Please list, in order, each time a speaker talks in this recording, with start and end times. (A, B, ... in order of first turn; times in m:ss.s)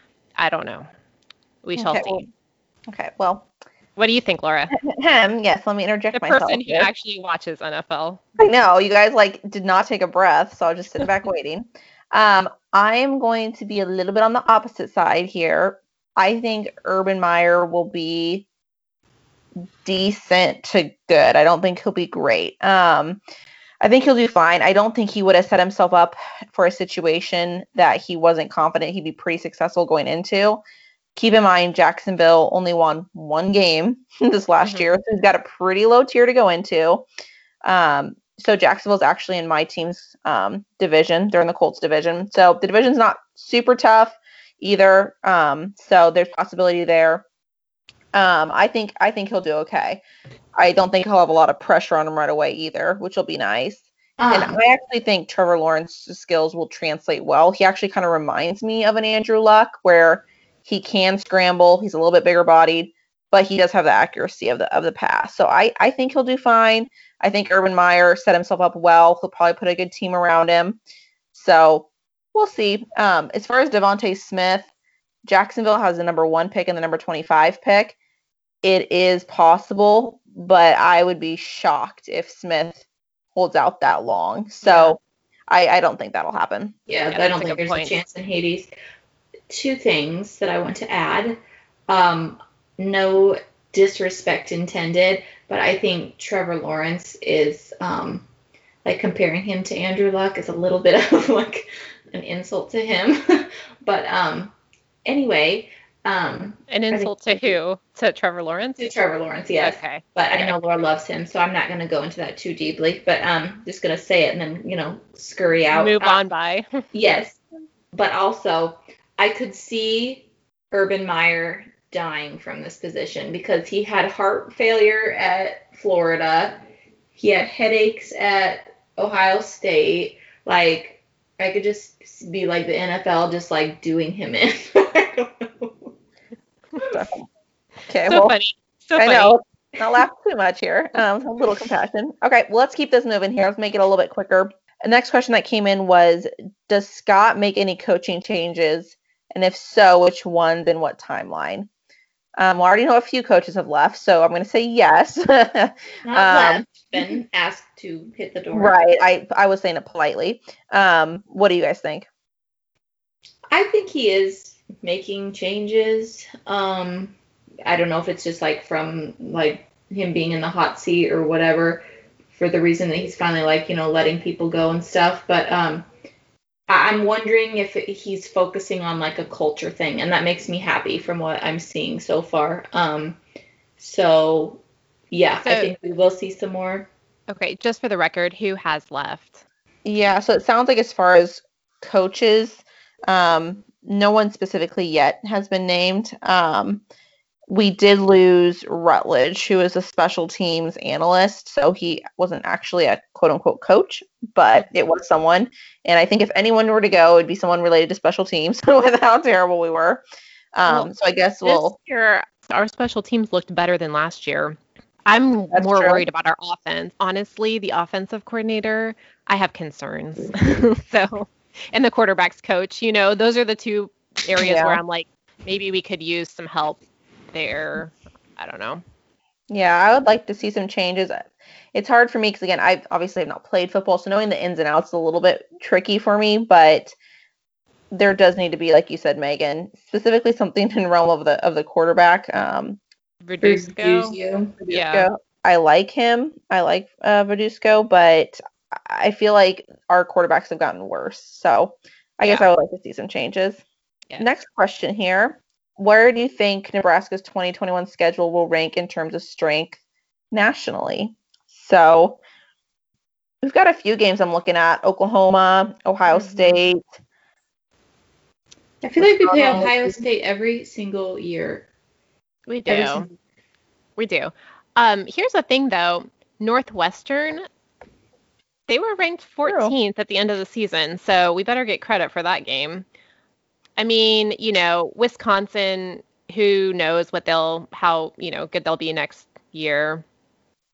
0:00.4-0:00.9 A
0:01.6-0:02.3 A
0:01.8-0:02.2 B
0:02.9-0:03.5 B
0:04.0-0:04.7 A
0:04.7-0:06.9 B
0:06.1-0:08.2 A
0:08.4-0:18.4 B
0:19.8-0:23.2 B
0:23.8-0:30.6 B
0:31.2-0:37.0 B
0:34.6-0:34.9 A
0:37.6-0:47.2 B
0:48.1-0:50.0 B
0:50.6-1:10.8 B
0:54.2-0:54.5 C
1:11.3-1:14.7 B
1:15.2-1:18.0 B
1:18.6-1:22.8 B
1:23.3-1:25.0 B
1:24.6-1:24.9 C
1:25.5-1:26.7 B
1:26.9-1:28.7 C
1:27.1-1:28.0 A
1:29.5-1:38.2 C
1:38.8-1:44.5 C
1:45.0-1:47.6 C
1:46.7-1:48.9 A
1:48.8-1:56.2 C
1:49.6-1:50.5 A
1:55.7-1:56.8 A
1:56.9-1:57.4 C
1:57.9-2:06.6 C
2:07.1-2:15.9 C
2:16.9-2:17.2 B
2:17.9-2:18.3 B
2:18.1-2:19.4 A
2:19.0-2:31.7 B
2:32.4-2:37.1 B
2:36.0-2:38.8 C
2:38.5-2:42.1 B
2:43.5-2:51.8 C
2:52.3-2:55.8 C
2:56.7-3:03.2 C
3:03.8-3:06.9 C
3:05.4-3:05.7 A
3:07.3-3:09.4 A
3:09.8-3:16.8 B
3:17.5-3:30.0 B
3:30.5-3:31.8 B
3:30.6-3:30.9 A
3:31.4-3:46.8 A
3:35.5-3:36.0 B
3:44.4-3:44.8 B
3:47.3-3:48.8 A
3:49.5-3:56.9 B
3:57.9-4:02.8 B
4:03.2-4:04.1 A
4:03.4-4:04.5 C
4:04.6-4:13.6 B
4:04.7-4:05.1 A
4:14.2-4:19.8 B
4:20.3-4:22.2 B
4:23.4-4:26.8 B
4:26.1-4:26.6 A
4:28.8-4:31.6 C
4:29.0-4:30.0 B
4:32.5-4:33.1 A
4:32.6-4:33.1 C
4:34.0-4:37.4 A
4:38.7-4:42.8 A
4:39.5-4:39.7 B
4:43.8-4:50.0 A